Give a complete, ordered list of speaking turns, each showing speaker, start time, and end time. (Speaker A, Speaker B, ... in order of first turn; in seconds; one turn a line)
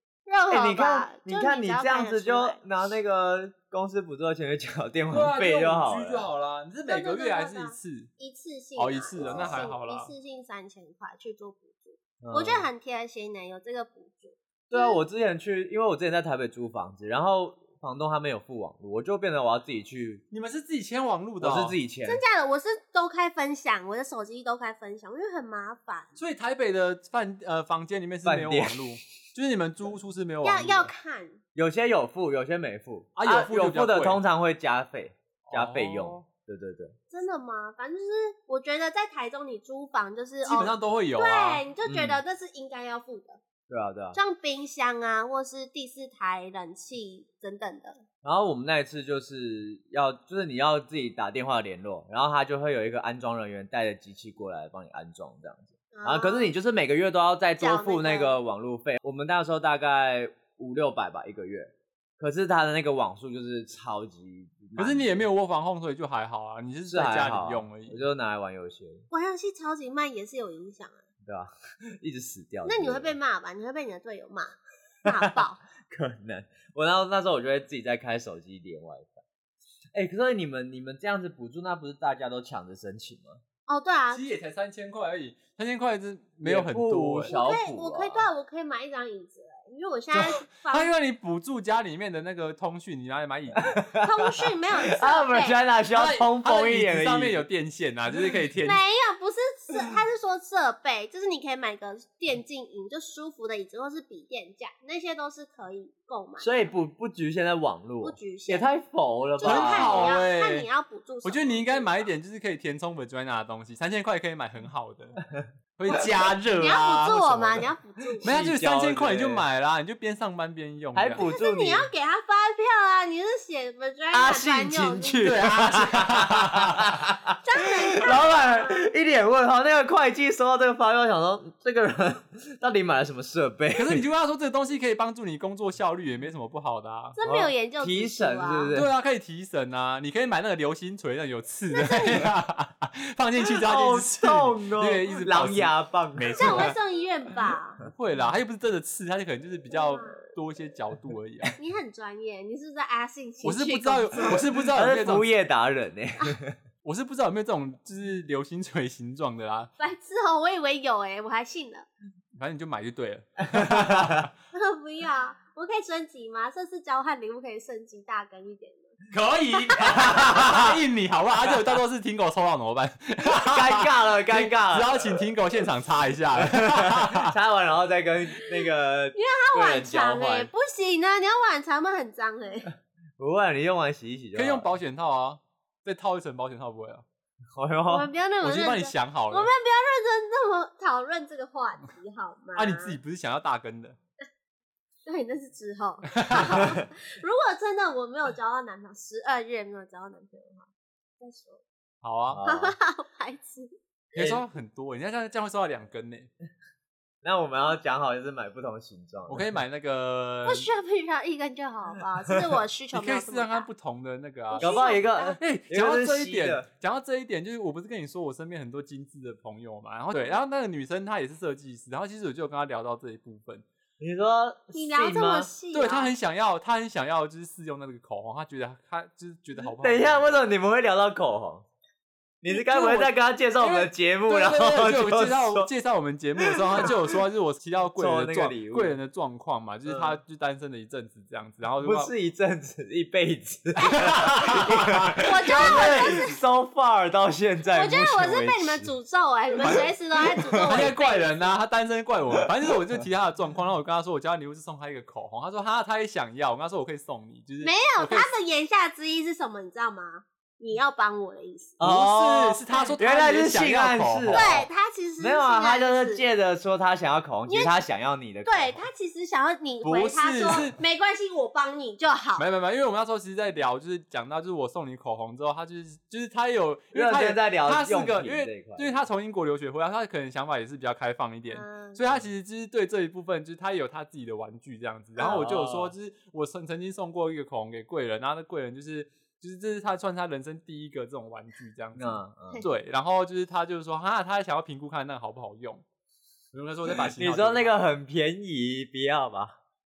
Speaker A: 0.3-2.6
Speaker B: 0.5-6.3
Speaker C: 5.1-8.1
Speaker A: 6.9-15.0
Speaker C: 8.8-10.1
Speaker B: 9.2-9.7
Speaker B: 12.2-12.7
Speaker B: 14.7-20.2
Speaker C: 20.3-21.8
Speaker B: 21.4-22.2
Speaker A: 22.1-26.2
Speaker C: 26.2-30.9
Speaker B: 28.2-29.0
Speaker A: 30.4-31.4
Speaker B: 31.6-37.0
Speaker C: 33.2-34.2
Speaker C: 35.5-36.2
Speaker A: 37.1-43.4
Speaker C: 40.4-41.6
Speaker B: 41.9-42.2
Speaker B: 43.7-44.2
Speaker A: 44.1-48.0
Speaker B: 48.2-65.2
Speaker A: 55.9-56.5
Speaker A: 57.6-58.4
Speaker C: 64.8-68.0
Speaker B: 66.9-69.1
Speaker A: 69.1-71.0
Speaker B: 71.2-73.2
Speaker A: 72.7-75.6
Speaker B: 75.9-79.2
Speaker B: 79.9-83.4
Speaker A: 83.7-84.2
Speaker C: 84.1-87.4
Speaker B: 86.4-88.2
Speaker A: 87.2-90.9
Speaker C: 90.1-93.8
Speaker B: 93.6-97.4
Speaker A: 94.0-95.6
Speaker C: 95.9-98.8
Speaker A: 98.6-106.5
Speaker B: 106.4-110.2
Speaker A: 108.0-108.7
Speaker A: 109.4-112.1
Speaker C: 109.4-110.7
Speaker C: 111.2-115.2
Speaker B: 115.4-116.1
Speaker C: 115.8-117.7
Speaker A: 116.5-118.3
Speaker B: 118.2-119.4
Speaker C: 118.2-121.2
Speaker B: 120.9-121.9
Speaker A: 121.2-125.3
Speaker B: 124.1-134.1
Speaker C: 125.2-126.9
Speaker A: 127.4-128.8
Speaker C: 133.7-137.2
Speaker A: 137.2-138.8
Speaker B: 137.2-138.9
Speaker C: 138.7-146.8
Speaker A: 141.7-142.3
Speaker B: 143.6-146.8
Speaker A: 146.4-147.8
Speaker C: 147.8-151.5
Speaker A: 149.7-150.2
Speaker A: 151.6-154.5
Speaker C: 153.4-155.3
Speaker B: 154.3-156.6
Speaker C: 156.8-159.7
Speaker A: 159.8-161.9
Speaker C: 162.3-164.3
Speaker B: 163.5-164.2
Speaker A: 164.5-168.9
Speaker C: 169.1-177.4
Speaker B: 169.7-170.8
Speaker A: 169.9-170.2
Speaker B: 173.2-175.2
Speaker B: 176.4-180.5
Speaker A: 179.1-182.7
Speaker B: 183.2-184.7
Speaker C: 184.3-187.1
Speaker B: 187.6-188.1
Speaker A: 187.9-193.0
Speaker C: 188.4-189.5
Speaker C: 192.6-194.0
Speaker A: 195.1-200.7
Speaker C: 196.1-196.6
Speaker B: 196.4-196.7
Speaker A: 201.2-201.6
Speaker C: 202.0-202.4
Speaker B: 202.3-202.8
Speaker A: 202.4-203.7
Speaker C: 204.1-206.3
Speaker B: 204.2-204.4
Speaker B: 207.2-209.5
Speaker C: 209.3-210.7
Speaker A: 210.4-213.7
Speaker C: 212.9-223.7
Speaker A: 214.5-215.4
Speaker B: 214.6-216.7
Speaker B: 224.0-225.5
Speaker A: 224.7-226.1
Speaker C: 225.7-230.4
Speaker B: 229.6-231.6
Speaker B: 232.4-235.7
Speaker C: 232.5-242.1
Speaker B: 236.4-237.2
Speaker B: 238.0-238.9
Speaker B: 239.9-240.2
Speaker B: 241.8-248.9
Speaker C: 243.9-246.3
Speaker A: 245.2-246.3
Speaker A: 247.7-251.4
Speaker B: 249.6-250.9
Speaker C: 250.7-258.3
Speaker B: 252.3-252.7
Speaker A: 257.6-261.8
Speaker B: 261.8-264.7
Speaker C: 261.8-264.6
Speaker A: 262.7-263.0
Speaker A: 264.3-266.2
Speaker B: 265.2-268.9
Speaker A: 267.5-267.7
Speaker A: 268.4-272.5
Speaker C: 269.8-270.8
Speaker C: 272.4-295.8
Speaker B: 276.9-279.1
Speaker A: 281.5-282.0
Speaker A: 285.2-285.4
Speaker B: 285.2-285.9
Speaker B: 292.0-292.6
Speaker C: 296.5-297.8
Speaker B: 296.9-299.6